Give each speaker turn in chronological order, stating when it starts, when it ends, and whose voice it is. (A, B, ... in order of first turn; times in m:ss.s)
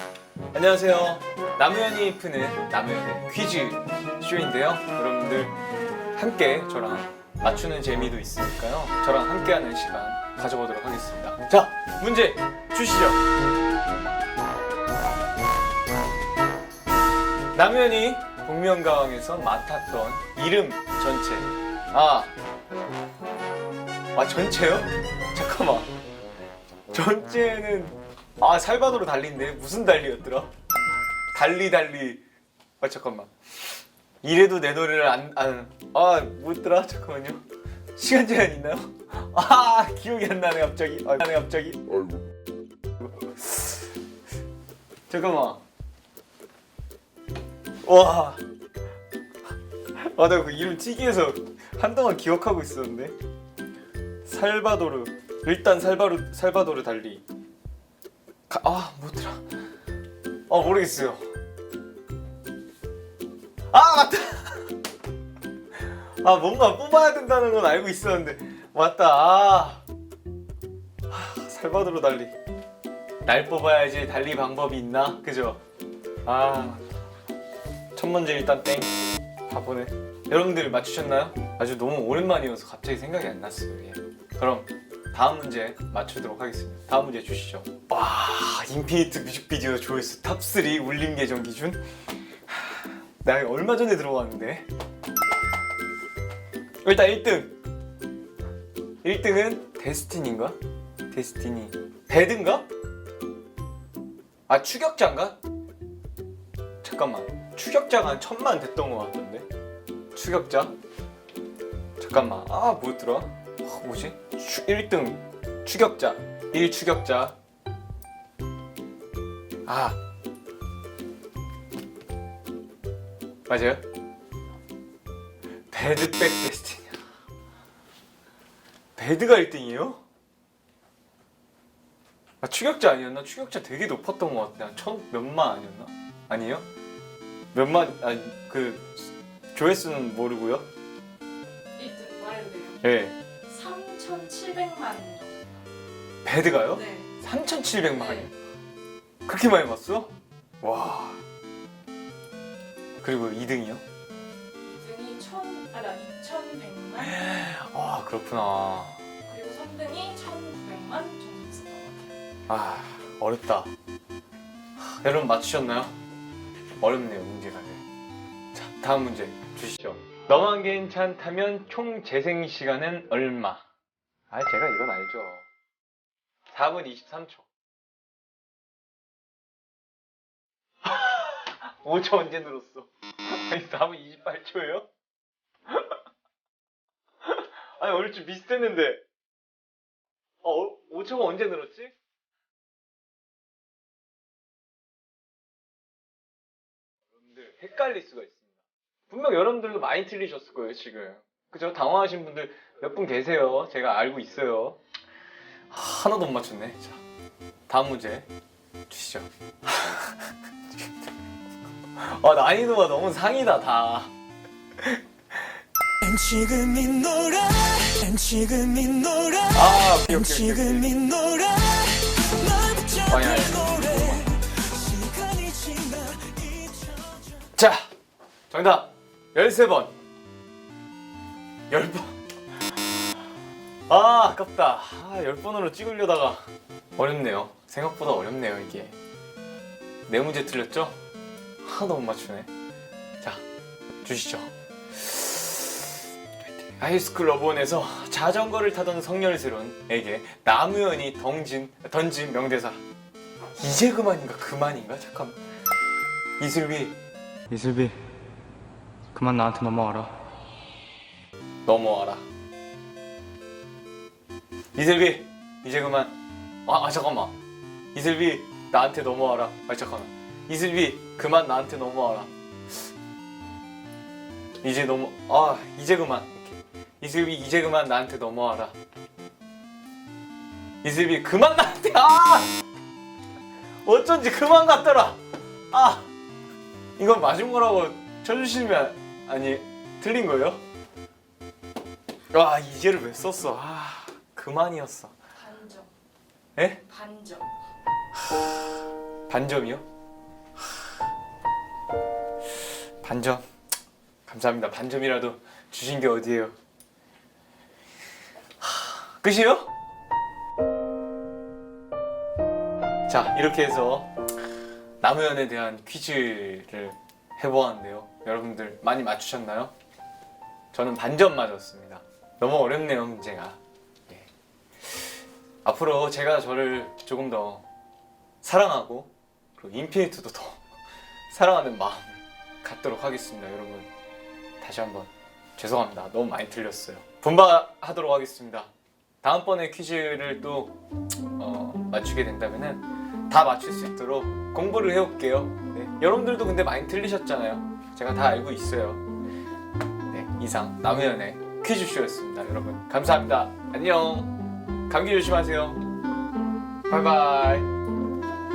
0:00.5-0:05.6 A
0:06.2-0:13.2 A
0:17.5-0:22.3 A
0:24.1-0:25.9 A
0:26.9-0:30.5 A
0:31.3-0:32.2 A
0:32.8-0:33.3 A
0:34.2-0:37.4 A
0:38.0-0:42.1 A
0:43.0-0:43.8 A
0:45.1-0:45.6 A
0:47.8-0:48.4 A
0:50.0-0:53.1 A
0:54.2-0:57.2 A
0:58.5-0:59.4 A
1:00.5-1:01.2 A
1:03.7-1:04.6 A
1:06.2-1:09.8 A
1:11.1-1:12.3 A
1:13.2-1:15.6 A
1:16.2-1:16.8 A
1:17.9-1:31.8 A
1:32.5-1:34.6 A
1:36.8-1:37.5 A
1:39.0-1:40.6 A
1:41.1-1:42.7 A
1:44.5-1:45.4 A
1:46.8-1:49.4 A
1:50.1-1:50.7 A
1:52.0-1:57.4 A
1:59.7-2:00.0 A
2:03.5-2:03.8 A
2:05.7-2:07.0 A
2:09.0-2:10.0 A
2:12.4-2:16.6 A
2:17.5-2:20.6 A
2:21.8-2:22.8 B
2:22.8-2:23.1 A
2:23.5-2:25.6 B
2:26.2-2:28.3 A
2:26.7-2:27.1 B
2:28.0-2:28.3 B
2:29.2-2:31.2 A
2:33.0-2:33.8 A
2:34.6-2:37.2 B
2:37.0-2:39.0 A
2:39.3-2:42.1 B
2:42.5-2:43.7 A
2:44.9-2:45.9 A
2:46.8-2:47.8 A
2:48.5-2:53.6 A
2:54.3-2:55.4 A
2:56.5-2:57.4 A
3:00.8-3:04.9 A
3:05.7-3:06.0 A
3:07.2-3:09.0 A
3:10.4-3:11.9 A
3:17.3-3:24.8 A
3:25.7-3:27.0 A
3:27.7-3:28.3 A
3:28.9-3:30.3 A
3:32.0-3:34.1 A
3:36.0-3:39.4 C
3:39.4-3:41.3 A
3:41.1-3:43.0 C
3:42.9-3:44.7 A
3:44.7-3:47.0 C
3:47.5-3:47.9 A
3:48.5-3:49.9 A
3:51.7-3:52.2 A
3:53.9-3:56.4 A
3:57.0-3:59.0 A
4:00.1-4:01.0 A
4:01.6-4:02.5 A
4:04.0-4:05.9 A
4:06.6-4:12.8 A
4:13.6-4:15.4 A
4:16.4-4:17.0 A
4:17.5-4:18.0 A
4:19.1-4:20.2 A
4:21.6-4:22.2 A
4:24.7-4:26.1 A
4:26.6-4:27.4 A
4:27.9-4:32.3 A
4:34.6-4:38.7 A
4:40.8-4:42.5 A
4:43.8-4:45.2 A
4:45.7-4:46.1 A
4:47.0-4:50.6 A
4:52.3-4:55.2 A
4:55.4-4:55.9 B
4:56.6-4:56.8 A
4:56.9-4:57.5 B
4:59.3-4:59.8 A
5:03.0-5:03.4 A
5:04.3-5:06.5 A
5:08.6-5:09.7 A
5:13.1-5:14.1 A
5:15.0-5:19.7 A
5:20.7-5:24.3 A
5:25.6-5:27.6 A
5:28.4-5:30.6 A
5:31.3-5:33.9 A
5:34.6-5:38.7 A
5:39.2-5:40.8 A
5:41.4-5:49.0 A
5:50.1-5:54.3 A
5:54.9-5:55.8 A
5:56.9-5:57.7 A